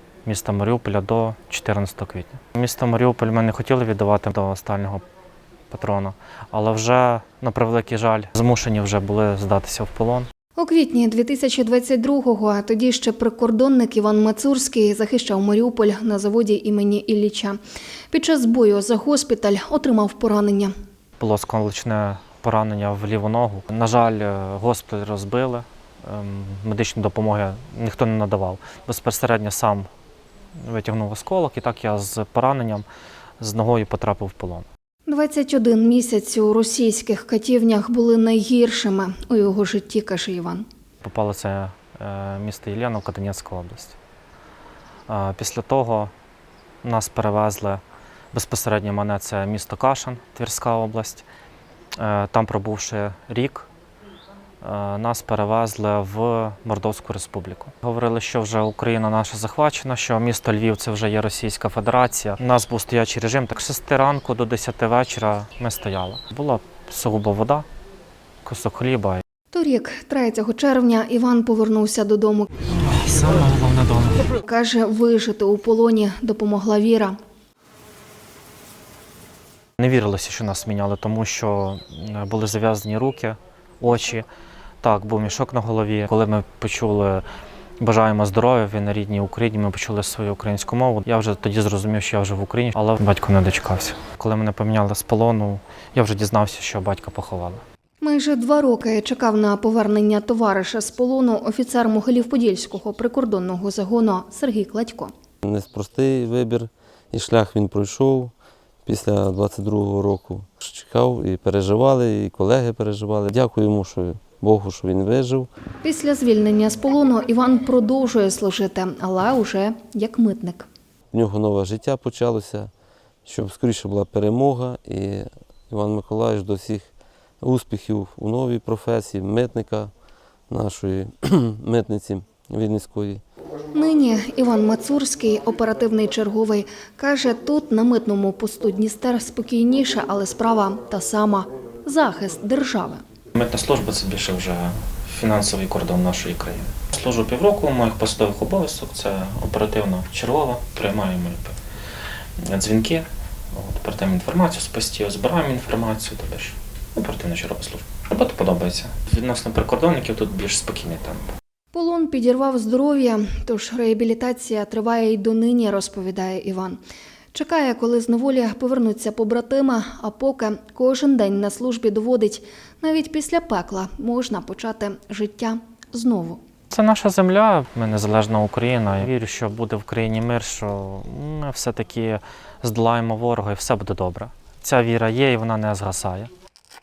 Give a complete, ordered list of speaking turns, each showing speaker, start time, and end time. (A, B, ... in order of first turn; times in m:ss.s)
0:00.2-0:05.0 A
0:05.7-0:10.3 A
0:10.6-0:17.6 B
0:18.1-0:20.7 B
0:21.2-0:29.9 A
0:30.6-0:32.8 A
0:33.4-0:34.7 A
0:35.1-0:40.6 B
0:41.0-0:44.0 A
0:45.1-0:46.1 A
0:46.8-0:47.8 A
0:48.3-0:51.2 A
0:51.9-0:53.7 A
0:54.6-1:07.6 A
1:08.4-1:09.2 A
1:09.5-1:12.5 B
1:12.7-1:14.3 A
1:14.4-1:17.2 B
1:19.8-1:24.3 A
1:24.8-1:27.2 A
1:27.8-1:37.6 A
1:38.0-1:45.1 B
1:45.4-1:48.3 C
1:48.8-1:55.5 C
1:55.8-2:00.7 B
2:01.1-2:02.7 C
2:03.2-2:09.9 C
2:10.5-2:13.2 C
2:13.7-2:23.0 B
2:23.4-2:31.6 A
2:32.4-2:41.3 A
2:41.7-2:46.8 B
2:47.3-2:56.4 B
2:56.7-3:06.3 A